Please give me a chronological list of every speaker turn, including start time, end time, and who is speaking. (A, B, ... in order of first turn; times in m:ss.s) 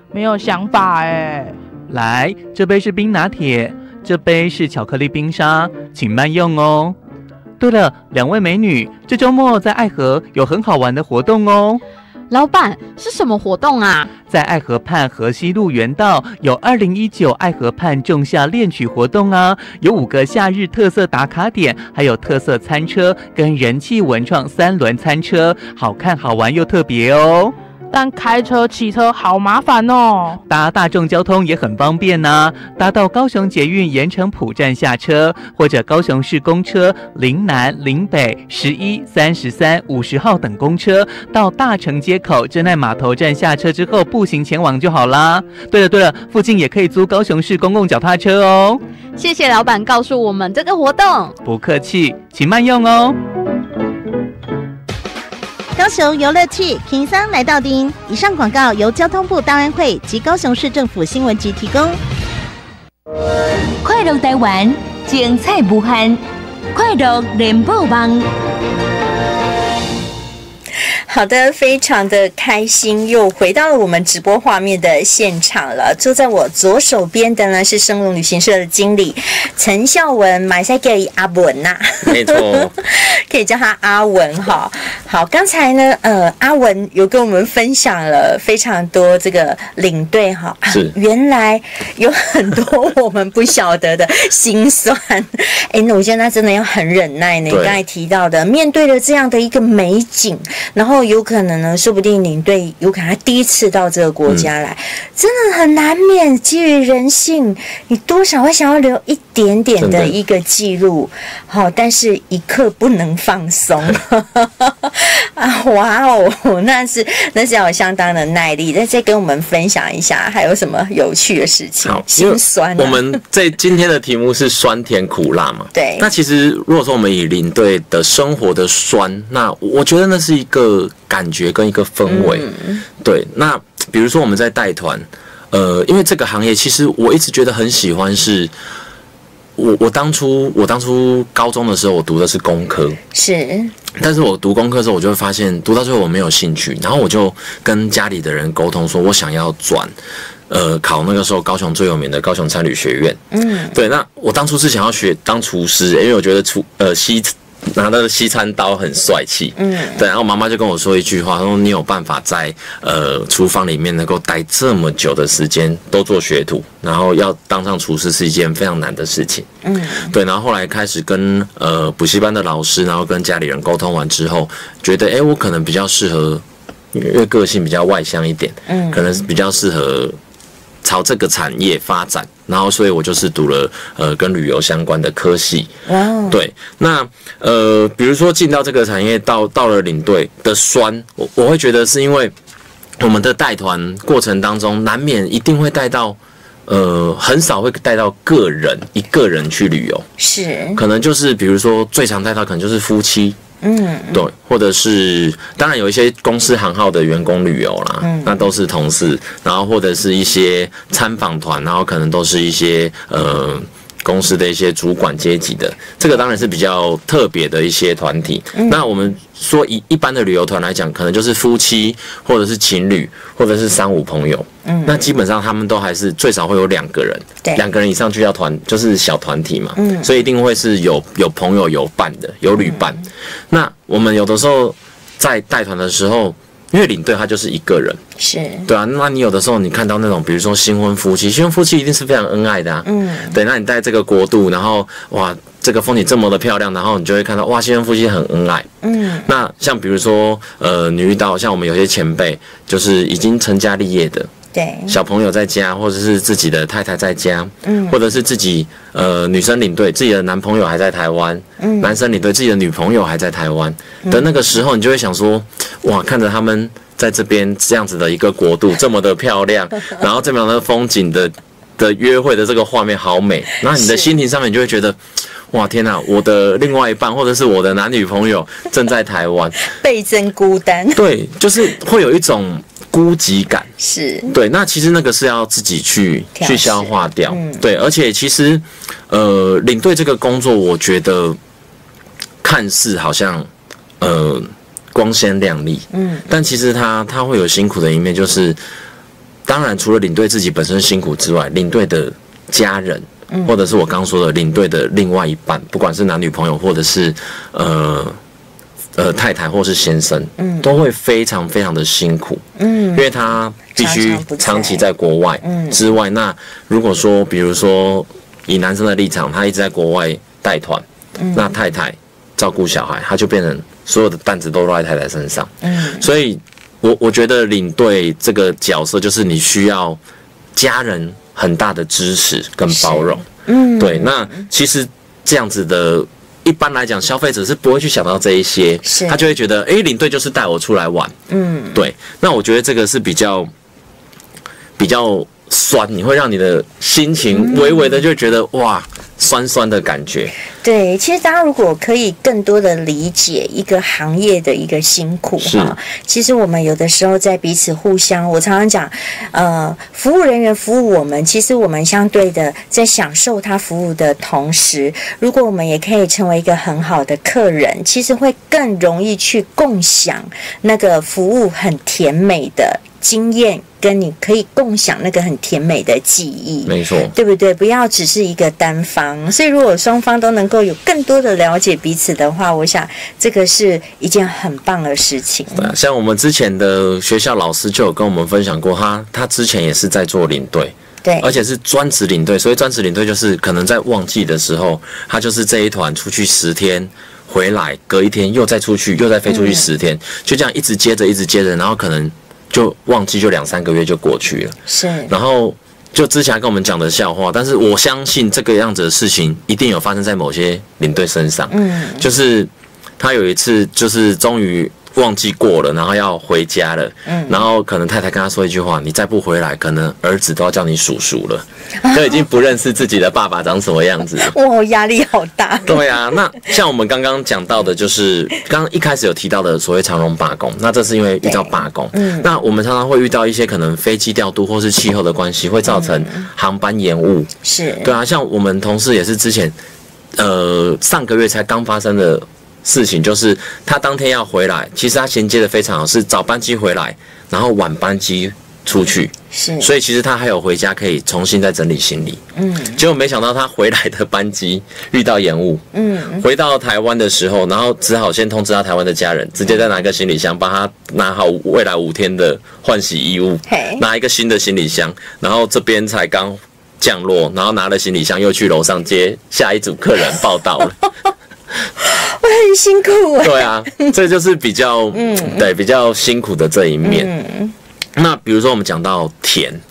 0:00.1-0:01.6 A
0:01.9-0:07.0 B
0:07.6-0:11.8 B
0:12.3-0:14.1 C
0:14.2-0:27.5 B
0:27.9-0:30.4 A
0:30.5-0:48.8 B
0:49.2-0:51.4 C
0:51.4-0:53.2 B
0:55.8-1:02.0 D
1:03.8-1:06.2 E
1:06.7-1:08.3 E
1:11.1-2:03.2 F
1:22.0-1:22.7 G
1:30.7-1:30.9 G
1:37.5-1:37.8 G
1:49.8-1:50.1 G
2:01.8-2:12.5 G
2:05.7-2:06.1 F
2:12.1-2:12.8 F
2:13.0-2:18.5 G
2:19.6-2:23.0 G
2:23.1-2:23.7 F
2:24.0-2:29.9 G
2:30.5-2:33.2 G
2:33.3-2:33.8 F
2:33.7-2:49.5 G
2:39.6-2:40.0 F
2:49.6-2:50.1 F
2:50.1-2:56.4 G
2:56.9-3:00.2 G
2:58.7-2:59.1 F
3:00.8-3:05.7 G
3:05.9-3:06.4 F
3:06.3-3:12.3 G
3:13.0-3:20.0 G
3:20.2-3:20.8 F
3:20.7-3:23.4 G
3:23.6-3:24.2 F
3:24.1-3:58.0 G
3:28.0-3:28.4 F
3:38.5-3:38.8 F
3:44.6-3:45.1 F
3:49.8-3:50.1 F
3:52.6-3:53.0 F
3:58.2-3:58.7 F
3:58.6-4:08.7 G
4:02.8-4:03.4 F
4:08.8-4:09.3 F
4:09.2-4:14.3 G
4:14.5-4:15.0 F
4:14.9-4:35.0 G
4:17.6-4:18.0 F
4:21.6-4:22.0 F
4:33.7-4:34.1 F
4:35.5-4:39.6 G
4:39.7-4:41.0 F
4:40.9-4:43.7 G
4:43.8-4:44.3 F
4:44.3-4:51.4 G
4:46.3-4:47.6 F
4:52.4-4:53.5 G
4:54.0-4:58.6 G
4:55.9-4:56.3 F
4:59.4-5:08.2 G
5:03.3-5:03.6 F
5:09.0-5:12.4 G
5:10.4-5:10.7 F
5:12.6-5:13.1 F
5:12.9-5:30.0 G
5:13.8-5:14.8 F
5:15.4-5:15.8 F
5:21.2-5:21.5 F
5:25.6-5:26.0 F
5:30.6-5:33.2 G
5:32.7-5:34.4 F
5:33.8-5:41.1 G
5:38.8-5:39.3 F
5:41.3-5:41.8 F
5:41.7-5:43.5 G
5:44.8-5:50.3 G
5:47.3-5:48.0 F
5:50.6-6:25.7 F
5:55.4-5:55.8 G
6:16.6-6:17.1 G
6:25.5-6:44.6 G
6:31.0-6:31.4 F
6:39.3-6:39.7 F
6:44.7-6:45.1 F
6:45.1-7:04.3 G
6:51.5-6:52.0 F
6:57.0-6:57.4 F
7:01.8-7:02.2 F
7:04.2-7:05.9 F
7:05.6-7:17.3 G
7:11.2-7:12.3 F
7:15.7-7:16.3 F
7:17.4-7:17.9 F
7:17.8-7:19.5 G
7:20.2-7:32.2 G
7:29.3-7:29.7 F
7:32.3-7:32.8 F
7:32.7-7:35.6 G
7:35.7-7:36.2 F
7:36.2-7:50.8 G
7:43.5-7:43.8 F
7:51.8-7:53.9 F
7:53.2-7:57.1 G
7:54.9-7:55.4 F
7:56.8-7:57.5 F
7:58.0-7:59.6 G